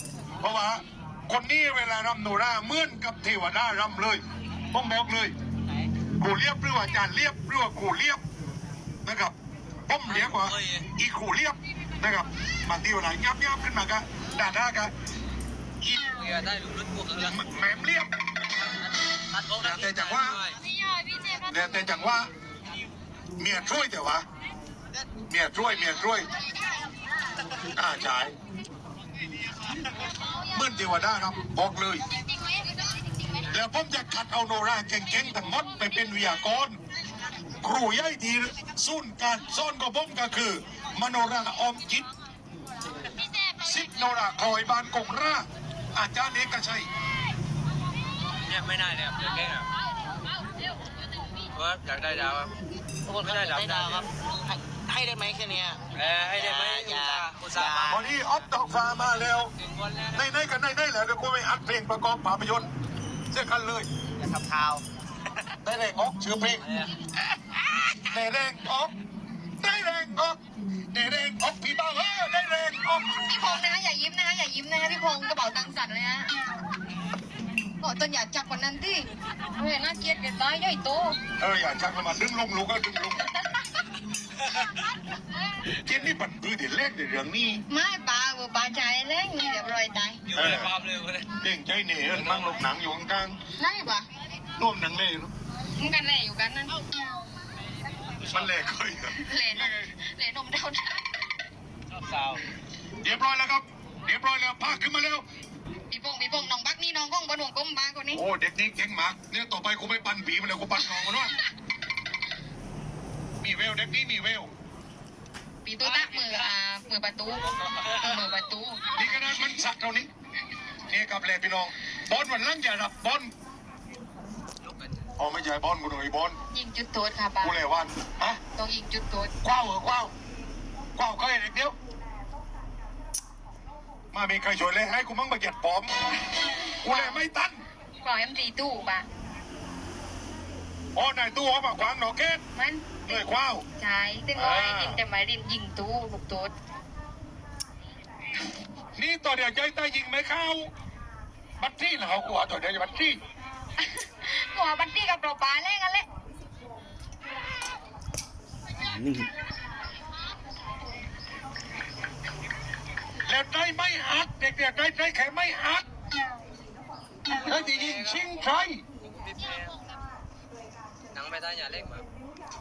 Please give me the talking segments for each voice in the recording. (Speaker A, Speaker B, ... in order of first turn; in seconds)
Speaker A: 0.4-5.3, 6.2-8.2, 9.0-9.3, 9.9-14.9, 15.8-16.1, 17.2-18.1, 19.6-20.4, 21.4-22.3, 23.4-24.2, 25.3-26.3, 27.7-28.3, 30.5-32.0, 33.5-36.8, 37.6-42.0, 43.6-46.9, 57.9-59.5, 60.1-62.7, 63.3-63.9, 65.6-66.7, 68.1-68.9, 69.6-70.4, 70.9-73.2, 81.4-83.3, 85.8-87.6, 90.3-90.7, 91.4-93.4, 94.6-95.3, 98.3-99.9, 103.0-105.2, 108.1-111.3, 113.4-114.5, 119.0-120.1, 120.9-123.3, 125.2-126.4, 127.4-128.4, 129.4-130.1, 131.0-131.7, 134.1-135.9, 136.8-137.6, 140.9-142.4, 143.1-143.6, 144.3-145.0, 149.0-150.7, 151.6-153.2, 163.3-165.8, 167.3-168.8
Speaker B: 10.1-10.9, 16.1-17.4, 18.7-20.6, 48.4-49.7, 51.5-52.5, 53.2-54.1, 55.9-58.0, 59.6-60.2, 66.7-66.9, 90.3-91.3, 92.1-92.6, 102.0-102.4, 167.3-168.5, 169.0-169.8, 171.1-172.0
Speaker C: 20.8-21.4, 73.3-76.3, 77.8-81.2, 87.7-90.2, 93.6-94.1, 95.7-97.0, 99.1-101.1, 105.9-108.2, 115.6-119.4, 126.5-127.5, 128.5-129.3, 136.8-137.2, 138.0-139.1, 142.5-143.2, 143.8-146.5, 153.8-156.1
Speaker D: 53.1-55.8, 56.4-58.4, 64.2-64.8